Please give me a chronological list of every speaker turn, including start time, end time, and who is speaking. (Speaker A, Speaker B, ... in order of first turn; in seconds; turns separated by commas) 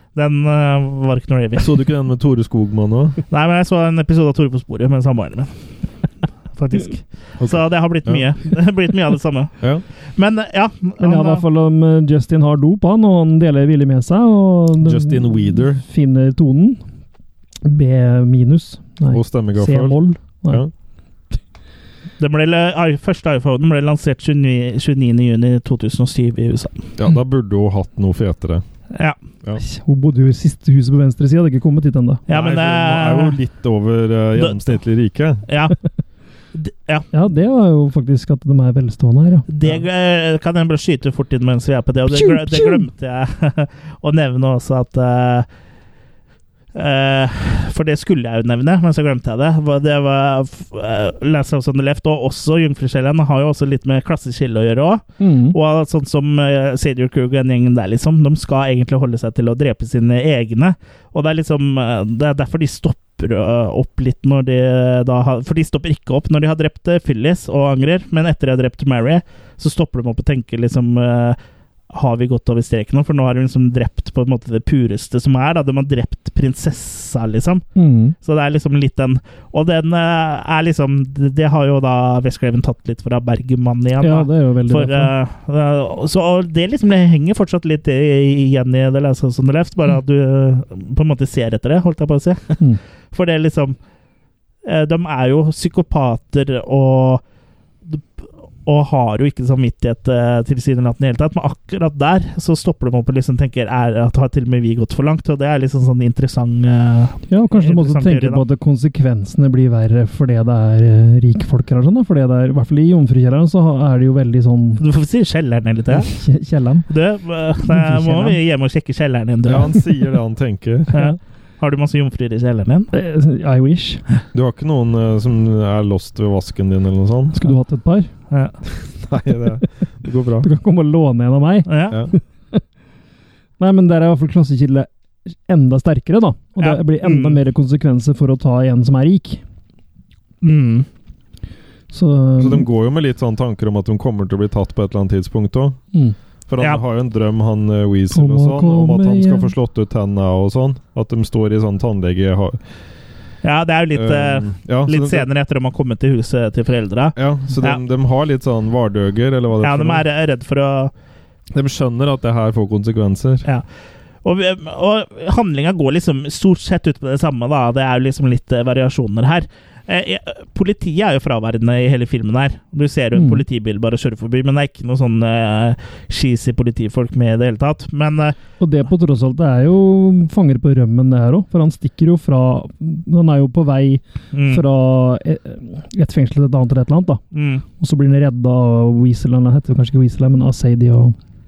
Speaker A: 0.1-1.8, Speaker B: 1.6-3.2, Speaker A: 3.3-5.5, Speaker A: 6.5-9.6, Speaker B: 7.4-8.2, Speaker A: 10.2-11.4, Speaker C: 11.0-16.8, Speaker B: 14.8-15.8, Speaker C: 17.6-20.6, Speaker B: 19.1-20.7, Speaker A: 22.2-26.9, Speaker B: 27.0-28.6, Speaker C: 29.6-32.2, Speaker A: 32.3-33.4, Speaker B: 32.3-35.5, Speaker A: 34.4-34.7, Speaker A: 35.5-35.8, Speaker A: 36.5-37.0, Speaker C: 37.1-39.5, Speaker A: 39.5-45.5, Speaker C: 42.1-42.9, Speaker A: 46.7-71.4, Speaker C: 55.2-55.5, Speaker A: 71.9-77.6, Speaker C: 77.8-78.1, Speaker A: 78.2-92.6, Speaker C: 84.0-85.1, Speaker A: 93.1-93.8, Speaker A: 94.6-97.2, Speaker A: 97.9-108.4, Speaker C: 107.3-114.8, Speaker A: 114.8-116.1, Speaker C: 115.9-116.9, Speaker A: 116.9-119.8, Speaker C: 117.7-118.4, Speaker B: 119.4-120.9, Speaker A: 120.9-122.9, Speaker C: 122.9-124.0, Speaker B: 124.3-127.4, Speaker C: 127.3-128.1, Speaker B: 128.8-130.5, Speaker C: 130.4-132.6, Speaker A: 131.7-132.0, Speaker C: 133.6-134.9, Speaker C: 135.4-139.4, Speaker A: 136.6-137.4, Speaker A: 140.4-140.9, Speaker C: 141.9-142.7, Speaker B: 142.4-145.8, Speaker B: 146.5-152.6, Speaker C: 148.1-149.5, Speaker A: 153.4-157.8, Speaker B: 153.9-155.3, Speaker B: 157.2-160.0, Speaker A: 159.6-160.9, Speaker B: 161.5-163.4, Speaker A: 164.2-178.3, Speaker C: 173.1-173.4, Speaker C: 178.6-187.2, Speaker A: 184.3-184.6, Speaker A: 187.3-187.6, Speaker C: 187.8-191.2